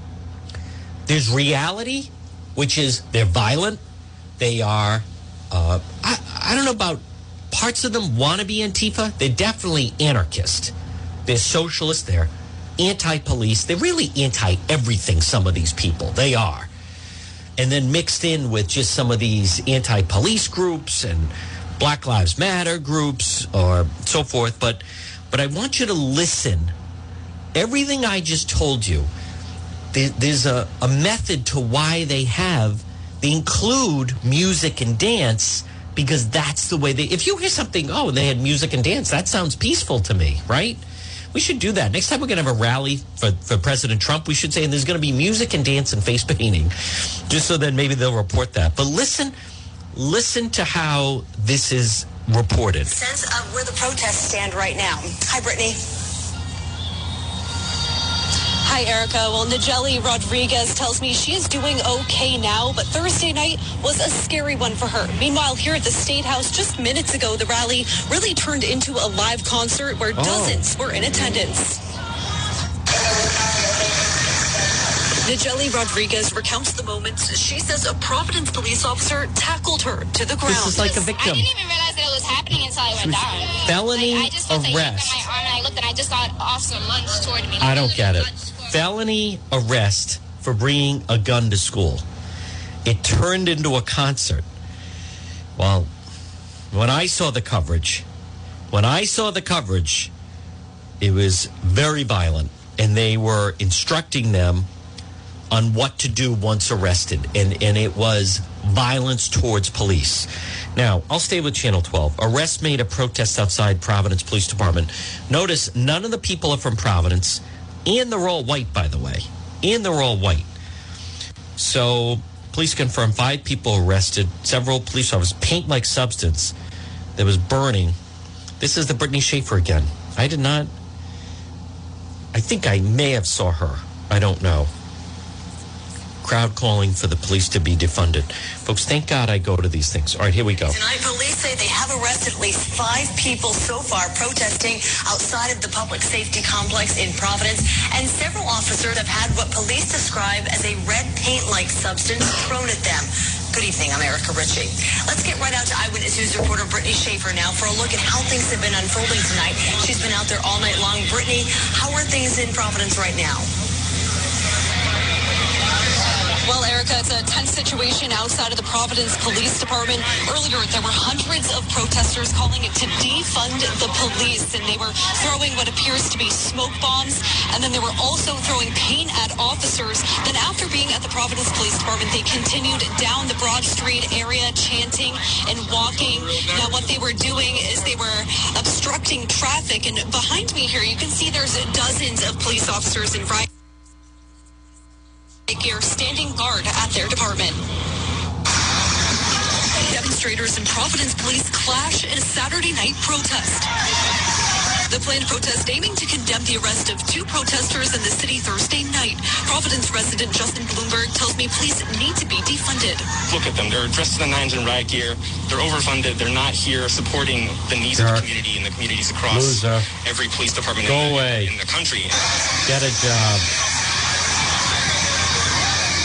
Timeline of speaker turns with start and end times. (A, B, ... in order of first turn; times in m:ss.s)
0:01.1-0:03.8 A
0:04.4-0:10.7 A
0:11.3-0:16.7 A
0:17.6-0:26.7 A
0:27.6-0:29.1 A
0:29.9-0:40.8 A
0:41.3-0:46.7 A
0:47.3-0:49.4 A
0:49.9-0:52.9 A
0:52.9-0:55.8 B
0:58.6-1:11.8 C
1:10.2-1:10.7 A
1:15.2-1:21.1 C
1:20.4-1:21.5 A
1:21.2-1:28.6 D
1:23.0-1:25.3 A
1:27.6-1:32.0 A
1:32.8-1:34.5 A
1:35.6-1:35.9 A
1:36.7-1:38.1 A
1:38.7-1:40.1 A
1:41.0-1:44.7 A
1:45.5-2:00.5 A
2:01.6-2:06.6 A
2:07.2-2:08.0 A
2:08.6-2:10.7 A
2:12.3-2:14.7 A
2:16.2-2:20.8 A
2:20.7-2:43.5 B
2:46.4-3:13.5 C
3:15.5-3:17.6 C
3:19.8-3:23.7 C
3:24.9-3:33.1 C
3:33.2-3:42.2 E
3:37.9-3:38.3 A
3:39.3-3:39.9 A
3:40.8-3:41.5 A
3:42.7-3:43.5 A